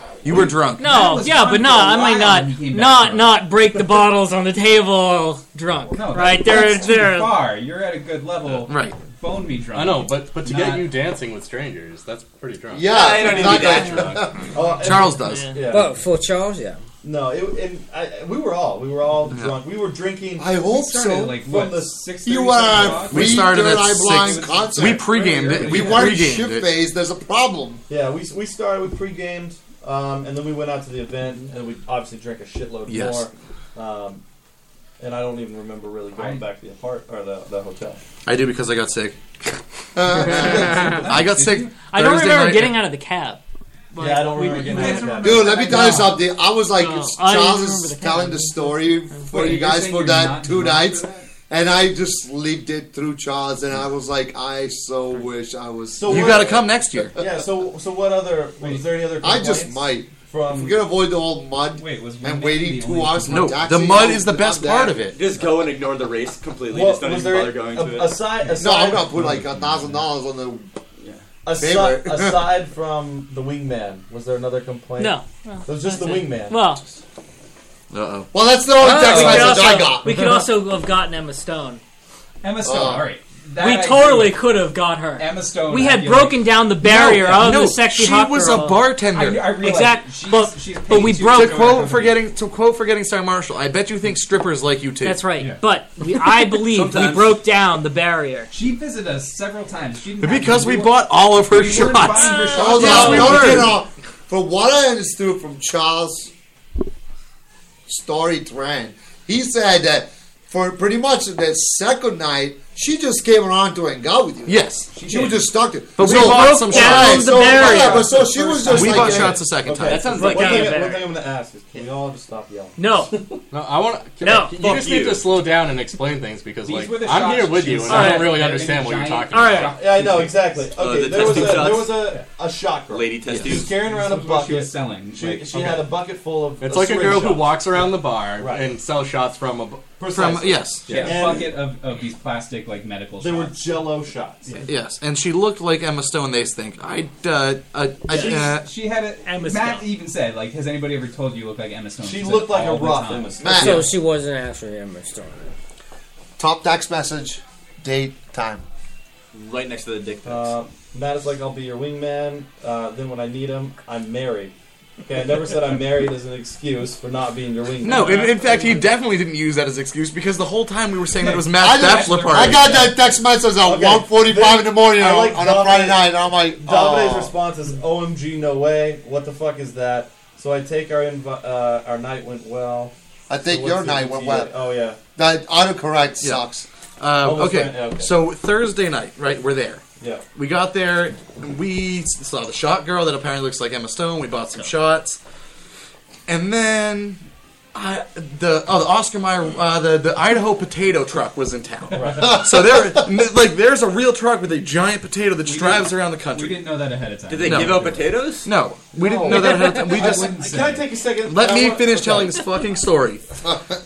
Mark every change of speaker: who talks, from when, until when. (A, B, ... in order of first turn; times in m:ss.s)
0:00.2-0:01.0 A
0:00.8-0:07.4 B
0:00.8-0:03.4 C
0:05.9-0:10.9 C
0:08.5-0:09.0 A
0:09.7-0:14.4 D
0:12.7-0:14.5 E
0:12.8-0:14.2 F
0:14.5-0:15.9 G
0:14.7-0:15.5 A
0:15.2-0:15.6 B
0:15.6-0:16.8 H
0:17.0-0:20.5 G
0:19.3-0:19.6 A
0:20.4-0:21.4 E
0:20.7-0:26.1 C
0:21.4-0:22.0 G
0:22.2-0:27.8 E
0:22.8-0:23.0 G
0:23.0-0:26.8 A
0:25.1-0:26.1 G
0:27.9-0:34.2 G
0:32.9-0:33.3 A
0:35.0-0:38.0 G
0:36.2-0:36.4 C
0:38.2-0:39.2 A
0:40.0-0:41.0 E
0:40.2-0:42.8 A
0:40.3-0:41.8 C
0:41.8-0:43.4 B
0:43.9-0:46.1 B
0:44.0-0:45.6 G
0:44.4-0:46.1 C
0:45.2-0:56.6 E
0:46.8-0:49.3 B
0:49.3-0:51.2 C
0:56.0-1:00.8 G
0:56.0-0:57.2 A
0:59.2-1:05.0 E
1:01.8-1:03.7 C
1:03.3-1:05.2 A
1:05.1-1:08.3 F
1:06.7-1:09.1 G
1:08.6-1:10.7 E
1:09.1-1:10.0 C
1:11.4-1:16.6 G
1:11.6-1:12.5 E
1:15.0-1:16.8 B
1:17.9-1:18.3 A
1:18.3-1:20.1 E
1:18.8-1:21.8 B
1:19.0-1:19.6 C
1:22.4-1:24.5 C
1:22.6-1:23.1 E
1:23.6-1:28.9 B
1:25.2-1:26.6 C
1:26.8-1:29.5 A
1:29.1-1:32.2 C
1:29.5-1:31.9 B
1:31.0-1:35.3 A
1:35.0-1:38.5 B
1:36.7-1:37.2 A
1:38.5-1:43.8 C
1:40.2-1:43.8 A
1:42.0-1:43.7 B
1:42.5-1:46.3 E
1:47.9-1:59.4 E
1:54.5-1:54.9 A
1:55.0-1:55.4 C
1:56.0-1:57.5 A
1:56.0-1:58.2 B
1:57.4-1:59.0 C
1:58.6-2:03.3 G
1:58.7-2:00.2 A
1:59.8-2:00.8 F
2:00.1-2:01.1 B
2:02.8-2:03.2 B
2:03.5-2:09.8 D
2:04.2-2:04.5 B
2:04.5-2:05.3 F
2:06.6-2:10.5 C
2:07.9-2:08.5 B
2:09.3-2:09.8 B
2:09.7-2:17.6 G
2:10.7-2:12.1 F
2:11.2-2:12.2 C
2:12.9-2:13.7 F
2:13.3-2:13.6 A
2:13.5-2:15.9 C
2:16.6-2:20.0 D
2:18.4-2:18.7 G
2:20.0-2:21.5 G
2:20.1-2:21.0 A
2:20.9-2:21.3 D
2:20.9-2:23.8 C
2:23.2-2:24.6 G
2:24.6-2:28.7 A
2:28.1-2:28.4 B
2:28.2-2:33.4 C
2:29.2-2:29.8 B
2:32.0-2:33.8 G
2:33.4-2:33.9 E
2:33.5-2:35.5 H
2:36.4-2:38.6 E
2:39.3-2:40.5 F
2:40.2-2:44.5 G
2:45.0-2:48.8 G
2:47.8-2:52.9 A
2:47.9-2:48.3 C
2:51.2-2:53.0 C
2:51.6-2:57.4 E
2:53.6-3:02.9 G
3:03.3-3:04.5 E
3:03.4-3:05.0 G
3:05.2-3:06.6 E
3:07.0-3:09.8 A
3:07.2-3:08.1 G
3:10.4-3:15.2 A
3:16.3-3:17.2 A
3:17.7-3:26.6 A
3:21.9-3:22.3 G
3:22.2-3:23.1 E
3:25.4-3:28.1 C
3:27.3-3:28.5 F
3:27.4-3:30.6 A
3:28.9-3:32.4 G
3:29.3-3:30.9 C
3:31.2-3:33.2 A